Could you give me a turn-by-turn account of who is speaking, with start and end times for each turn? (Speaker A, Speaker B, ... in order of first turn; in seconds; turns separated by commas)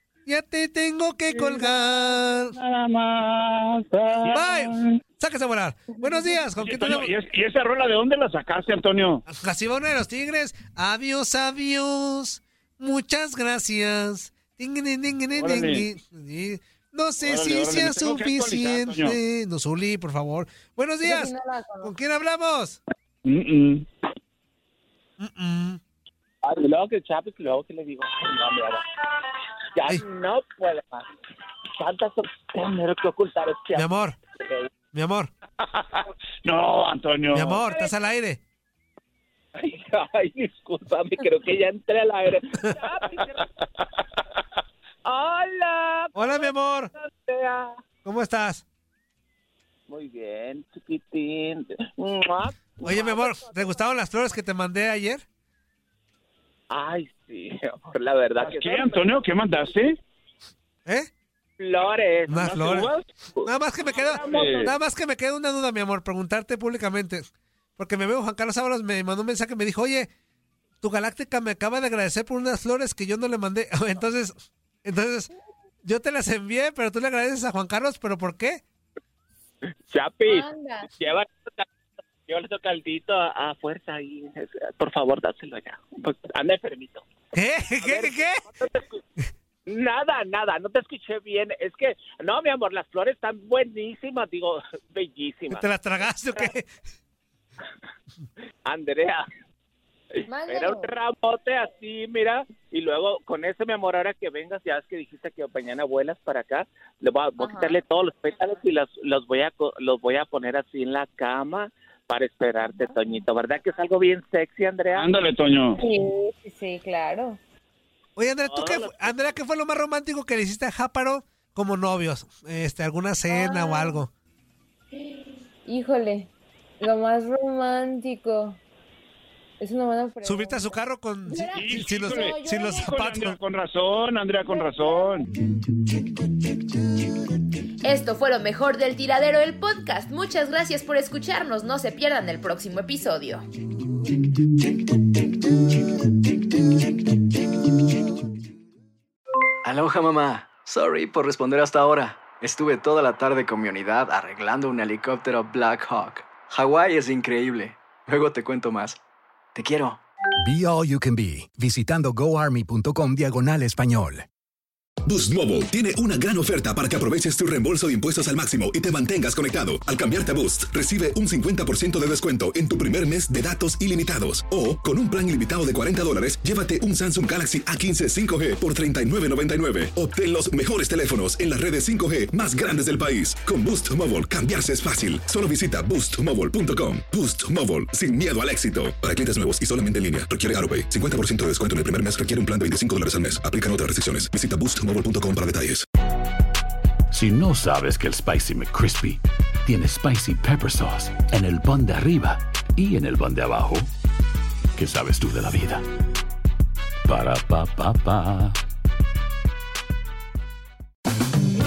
Speaker A: 0.3-2.5, Speaker B: 1.3-5.0, Speaker A: 4.3-7.1, Speaker C: 6.6-9.2, Speaker A: 9.3-22.8, Speaker C: 15.3-15.9, Speaker C: 17.2-19.2, Speaker D: 21.0-21.9, Speaker C: 23.2-23.9, Speaker A: 25.2-25.8, Speaker E: 26.4-29.0, Speaker E: 29.8-31.1, Speaker E: 31.8-33.9, Speaker A: 33.7-34.2, Speaker A: 34.9-35.3, Speaker C: 35.7-37.6, Speaker A: 37.3-38.4, Speaker E: 37.7-37.9, Speaker E: 39.6-43.5, Speaker E: 45.0-47.8, Speaker A: 46.1-46.9, Speaker A: 48.0-48.6, Speaker E: 49.9-53.9, Speaker A: 52.8-55.2, Speaker E: 56.7-59.2, Speaker C: 58.4-60.0, Speaker E: 61.6-64.8, Speaker A: 62.3-62.9, Speaker A: 63.4-67.2, Speaker C: 64.2-64.7, Speaker A: 67.8-70.1, Speaker A: 70.8-75.3, Speaker A: 75.8-78.6, Speaker E: 79.9-81.7, Speaker D: 80.3-80.9, Speaker E: 82.3-87.1, Speaker A: 87.3-88.4, Speaker E: 87.8-89.0, Speaker E: 89.7-96.5, Speaker A: 95.5-96.7, Speaker E: 98.7-99.2, Speaker E: 100.1-115.1, Speaker D: 100.3-100.9, Speaker D: 107.4-107.8, Speaker C: 114.9-115.8, Speaker D: 115.8-117.4, Speaker A: 118.2-124.1, Speaker E: 118.4-119.3, Speaker D: 123.3-124.0, Speaker D: 124.9-128.6, Speaker D: 129.6-132.9, Speaker A: 130.2-133.4, Speaker C: 131.6-135.3, Speaker D: 134.4-135.2, Speaker D: 137.8-143.4, Speaker F: 149.6-159.0, Speaker F: 159.6-160.0, Speaker G: 160.4-164.3, Speaker H: 165.1-195.8, Speaker I: 197.1-203.9, Speaker I: 204.8-205.8, Speaker I: 207.1-208.6